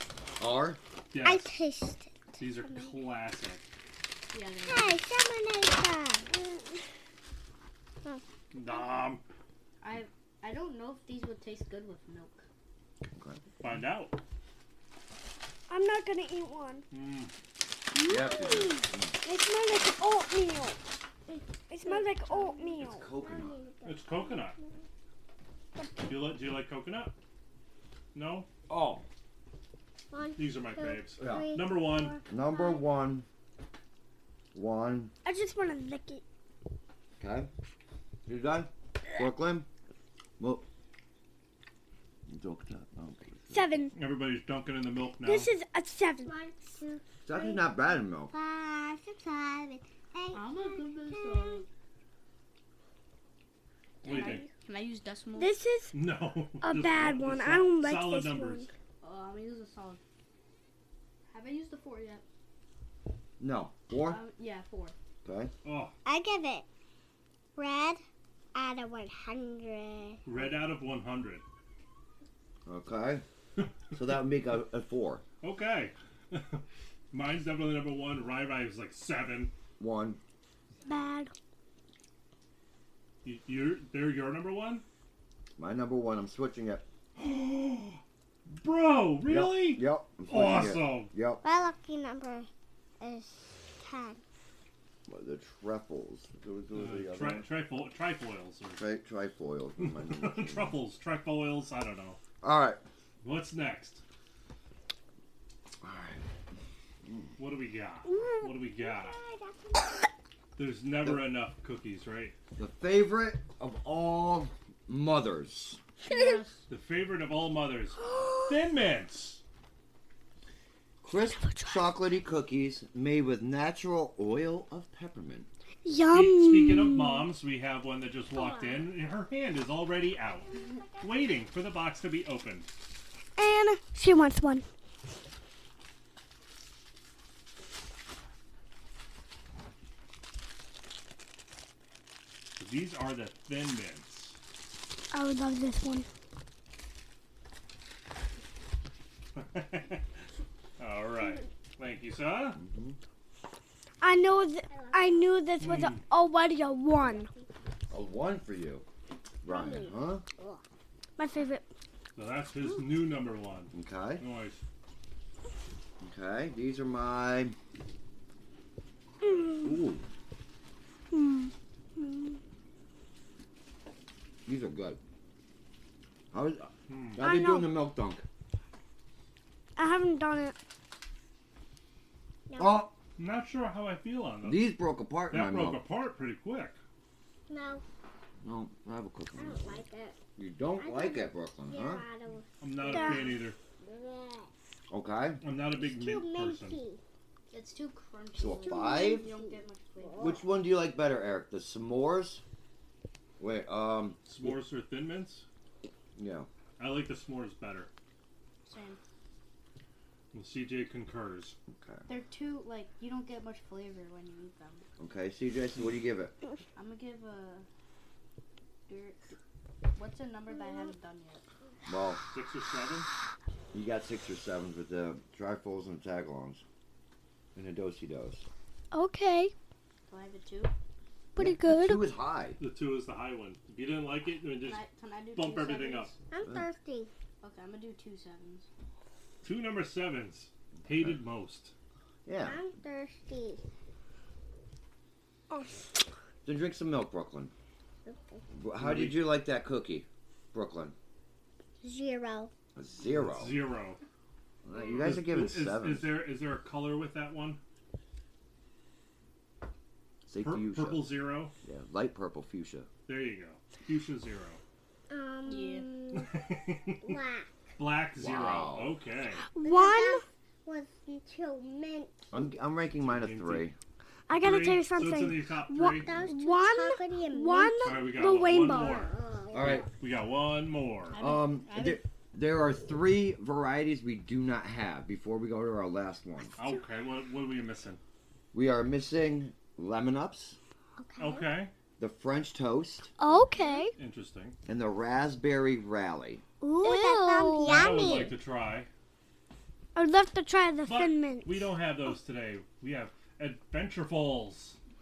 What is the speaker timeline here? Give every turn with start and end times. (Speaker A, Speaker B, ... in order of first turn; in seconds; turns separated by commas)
Speaker A: 0.4-0.8, Speaker B: 1.1-1.5, Speaker C: 1.2-2.8, Speaker B: 2.4-3.6, Speaker D: 4.3-5.0, Speaker C: 4.6-6.5, Speaker B: 8.5-9.2, Speaker D: 9.8-12.4, Speaker A: 13.1-13.4, Speaker B: 13.6-14.2, Speaker E: 15.7-16.8, Speaker B: 16.9-17.3, Speaker E: 17.9-20.8, Speaker A: 18.0-19.1, Speaker C: 21.3-24.7, Speaker E: 21.7-23.0, Speaker A: 22.8-23.6, Speaker B: 23.8-24.6, Speaker B: 26.0-27.1, Speaker B: 28.1-28.5, Speaker A: 28.7-29.0, Speaker C: 30.1-32.8, Speaker B: 30.4-32.2, Speaker A: 31.2-31.6, Speaker A: 32.3-33.2, Speaker A: 34.5-35.1, Speaker E: 35.2-36.2, Speaker A: 37.2-37.5, Speaker A: 38.2-39.7, Speaker A: 40.4-40.6, Speaker A: 42.3-43.7, Speaker E: 43.5-43.9, Speaker B: 43.9-45.5, Speaker E: 45.2-46.3, Speaker C: 46.2-51.6, Speaker A: 47.2-48.3, Speaker D: 50.3-51.6, Speaker C: 54.0-54.5, Speaker B: 54.0-54.5, Speaker D: 54.1-55.5, Speaker E: 55.3-55.9, Speaker B: 55.9-58.7, Speaker E: 56.6-58.7, Speaker D: 59.0-60.0, Speaker D: 61.3-62.2, Speaker A: 63.4-64.2, Speaker D: 64.0-64.9, Speaker A: 65.2-65.5, Speaker B: 65.6-65.9, Speaker C: 66.0-66.7, Speaker C: 67.5-68.0, Speaker C: 68.5-70.2, Speaker B: 70.2-71.4, Speaker A: 72.7-73.2, Speaker A: 73.9-75.2, Speaker B: 75.4-79.5, Speaker A: 79.8-80.2, Speaker E: 80.8-81.3, Speaker B: 83.2-84.8, Speaker A: 85.6-86.8, Speaker B: 87.2-91.1, Speaker A: 89.3-91.4, Speaker C: 91.4-92.5, Speaker C: 93.0-94.2, Speaker A: 95.1-97.5, Speaker B: 96.7-98.8, Speaker A: 98.8-100.8, Speaker B: 99.8-102.2, Speaker A: 102.4-102.8, Speaker B: 103.2-104.0, Speaker A: 105.8-106.2, Speaker A: 107.0-107.3, Speaker B: 107.4-109.2, Speaker C: 108.2-110.1, Speaker B: 110.6-112.3, Speaker A: 112.5-115.8, Speaker D: 116.1-116.6, Speaker B: 116.7-119.4, Speaker A: 121.0-125.5, Speaker E: 121.4-121.9, Speaker E: 125.8-127.3, Speaker B: 126.1-132.7, Speaker C: 128.3-128.9, Speaker C: 130.5-131.4, Speaker E: 133.4-134.6, Speaker B: 142.6-144.4, Speaker E: 145.1-146.1, Speaker B: 149.3-150.1, Speaker B: 150.8-152.6, Speaker A: 152.6-153.0, Speaker E: 154.0-157.3, Speaker C: 154.7-155.4, Speaker B: 155.6-156.0, Speaker C: 157.0-157.4, Speaker A: 157.9-158.8, Speaker A: 159.4-160.2, Speaker C: 159.5-160.6, Speaker E: 161.2-161.7, Speaker B: 162.1-164.6, Speaker A: 163.7-164.2, Speaker A: 166.0-167.5, Speaker E: 169.2-169.7, Speaker A: 169.6-170.0, Speaker E: 171.1-172.4, Speaker A: 174.4-175.0, Speaker A: 176.3-178.2, Speaker B: 176.9-177.2, Speaker E: 177.2-177.8, Speaker E: 179.8-180.5, Speaker C: 182.5-182.8, Speaker A: 182.6-182.9, Speaker B: 183.2-184.7, Speaker A: 184.4-185.8, Speaker B: 185.3-186.8, Speaker C: 187.5-187.8, Speaker A: 188.4-189.8, Speaker C: 189.4-190.2, Speaker A: 190.4-192.0, Speaker C: 190.8-194.5, Speaker B: 192.6-193.6, Speaker E: 192.8-193.4, Speaker A: 194.9-195.4, Speaker B: 195.4-196.8, Speaker C: 195.7-197.0, Speaker D: 197.5-200.4, Speaker A: 198.3-199.3, Speaker C: 198.6-200.4, Speaker A: 200.2-202.4, Speaker A: 203.4-204.5, Speaker B: 204.2-205.4, Speaker A: 206.2-206.5, Speaker B: 206.8-207.9, Speaker D: 208.6-209.0, Speaker B: 210.3-211.6, Speaker A: 211.7-212.1, Speaker D: 212.1-214.8, Speaker A: 215.0-216.3, Speaker D: 216.8-217.7, Speaker D: 218.9-219.3, Speaker D: 219.9-221.4, Speaker A: 221.8-222.2, Speaker B: 222.3-223.1, Speaker A: 223.7-226.6, Speaker A: 227.5-228.5, Speaker E: 228.9-229.5, Speaker D: 230.1-230.7, Speaker E: 231.3-232.0, Speaker A: 231.4-232.6, Speaker B: 232.6-236.1, Speaker D: 234.6-236.2, Speaker C: 236.3-237.1, Speaker D: 237.4-238.7, Speaker B: 239.4-241.7, Speaker A: 240.9-241.1, Speaker A: 242.2-242.6, Speaker C: 242.4-243.6, Speaker A: 246.4-247.5, Speaker C: 248.0-248.4, Speaker A: 248.6-250.9, Speaker B: 248.8-249.3, Speaker C: 251.8-252.5, Speaker A: 252.8-253.5, Speaker B: 253.1-254.0, Speaker A: 254.6-256.1, Speaker B: 255.0-257.6, Speaker A: 260.2-262.9, Speaker B: 260.4-261.5, Speaker B: 263.1-264.6, Speaker C: 265.1-266.4, Speaker D: 265.4-266.0, Speaker B: 266.1-267.2, Speaker C: 267.0-267.5, Speaker B: 267.8-269.4, Speaker A: 268.2-269.0, Speaker E: 269.5-270.2, Speaker C: 269.6-272.3, Speaker A: 272.3-273.7, Speaker B: 273.0-273.7, Speaker E: 274.3-279.1, Speaker B: 274.3-276.3, Speaker C: 275.9-279.9, Speaker B: 277.8-281.2, Speaker A: 279.5-279.9, Speaker D: 281.1-282.0, Speaker A: 281.2-286.6, Speaker B: 286.6-288.0, Speaker A: 288.5-290.6, Speaker C: 291.0-291.5, Speaker B: 291.2-291.7, Speaker A: 292.0-293.1, Speaker E: 293.2-293.9, Speaker D: 293.4-293.9, Speaker B: 293.9-294.6, Speaker A: 294.6-296.4, Speaker E: 296.6-298.3, Speaker C: 296.8-298.4, Speaker B: 297.6-298.9, Speaker E: 299.9-301.7, Speaker B: 300.8-304.8